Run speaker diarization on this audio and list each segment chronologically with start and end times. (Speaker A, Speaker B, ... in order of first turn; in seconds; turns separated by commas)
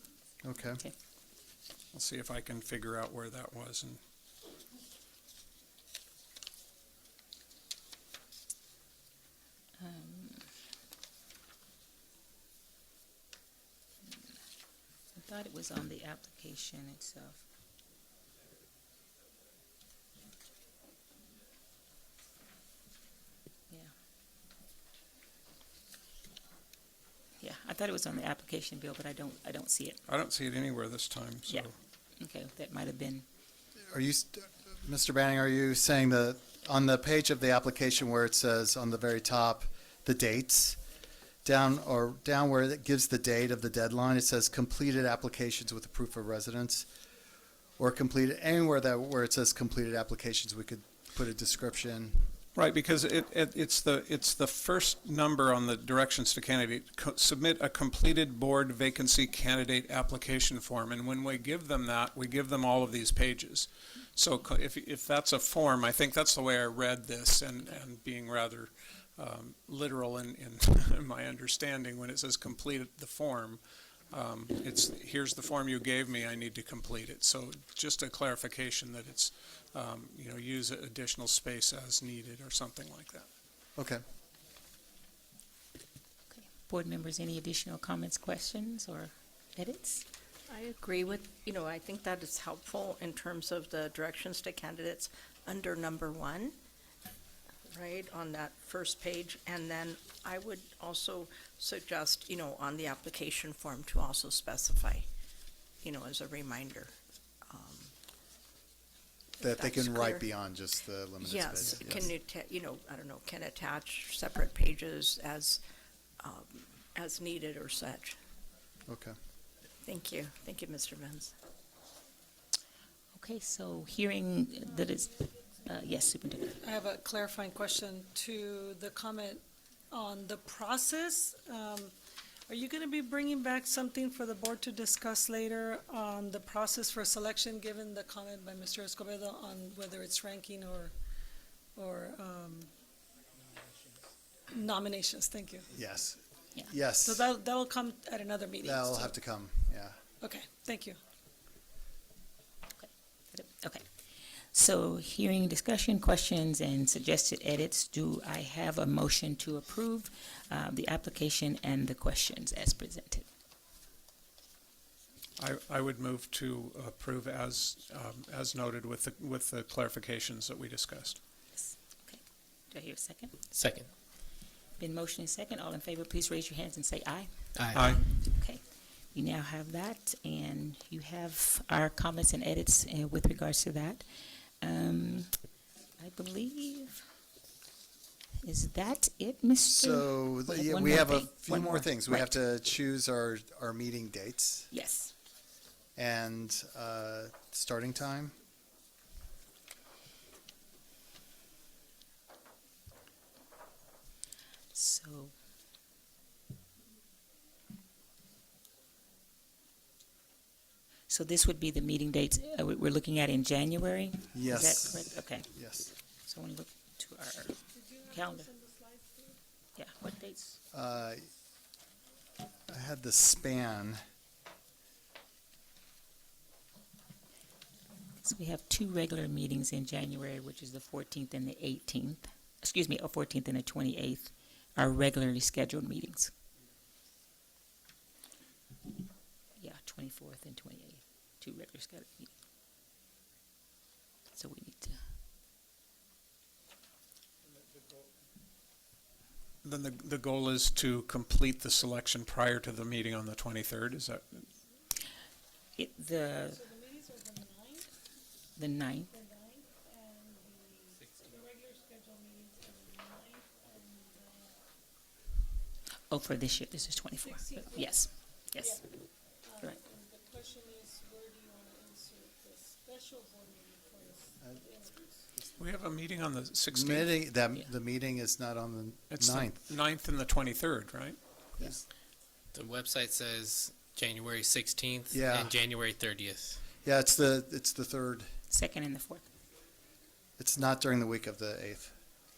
Speaker A: 0.4-0.8, Speaker B: 1.9-4.0, Speaker C: 9.8-10.4, Speaker C: 15.1-17.4, Speaker C: 27.4-30.0, Speaker B: 30.1-31.7, Speaker C: 31.5-33.2, Speaker A: 33.9-40.8, Speaker A: 41.4-46.9, Speaker A: 47.8-52.3, Speaker B: 52.5-83.3, Speaker A: 83.8-84.0, Speaker C: 86.3-90.0, Speaker D: 90.5-96.5, Speaker D: 97.7-105.1, Speaker D: 105.8-106.9, Speaker D: 107.5-107.9, Speaker D: 109.4-110.2, Speaker A: 109.4-112.1, Speaker D: 111.2-115.6, Speaker D: 116.2-118.1, Speaker A: 118.9-119.1, Speaker D: 119.8-121.3, Speaker C: 123.1-126.6, Speaker E: 126.7-129.4, Speaker E: 129.9-131.9, Speaker E: 132.5-140.9, Speaker E: 141.8-142.6, Speaker E: 144.5-145.6, Speaker A: 145.7-147.2, Speaker E: 147.1-149.1, Speaker A: 148.6-150.0, Speaker E: 150.2-150.9, Speaker C: 152.8-153.8, Speaker C: 154.5-163.2, Speaker B: 165.4-171.2, Speaker C: 171.6-173.3, Speaker F: 173.5-173.9, Speaker C: 174.8-178.6, Speaker F: 177.6-178.0, Speaker B: 177.7-178.0, Speaker C: 179.1-184.1, Speaker C: 184.6-185.3, Speaker C: 186.0-187.0, Speaker C: 188.4-192.3, Speaker A: 189.7-194.7, Speaker C: 194.7-195.1, Speaker A: 195.9-198.3, Speaker C: 204.7-205.3, Speaker C: 211.1-215.5, Speaker A: 214.3-215.9, Speaker C: 216.2-218.5, Speaker E: 218.7-219.3, Speaker C: 219.8-220.6, Speaker A: 220.7-221.3, Speaker A: 222.7-224.0, Speaker C: 228.2-236.3, Speaker C: 239.6-242.3, Speaker C: 244.3-245.0, Speaker B: 249.6-254.4, Speaker C: 255.8-256.6, Speaker E: 256.7-257.8, Speaker C: 258.6-259.1, Speaker E: 259.3-260.7, Speaker F: 261.0-261.4, Speaker E: 261.6-264.3, Speaker C: 266.1-268.8, Speaker E: 269.7-274.9, Speaker B: 275.6-277.2, Speaker A: 276.7-279.6, Speaker B: 279.1-281.2, Speaker F: 282.5-286.6, Speaker A: 285.1-285.5, Speaker A: 286.8-288.3, Speaker C: 288.5-289.3, Speaker A: 290.4-291.9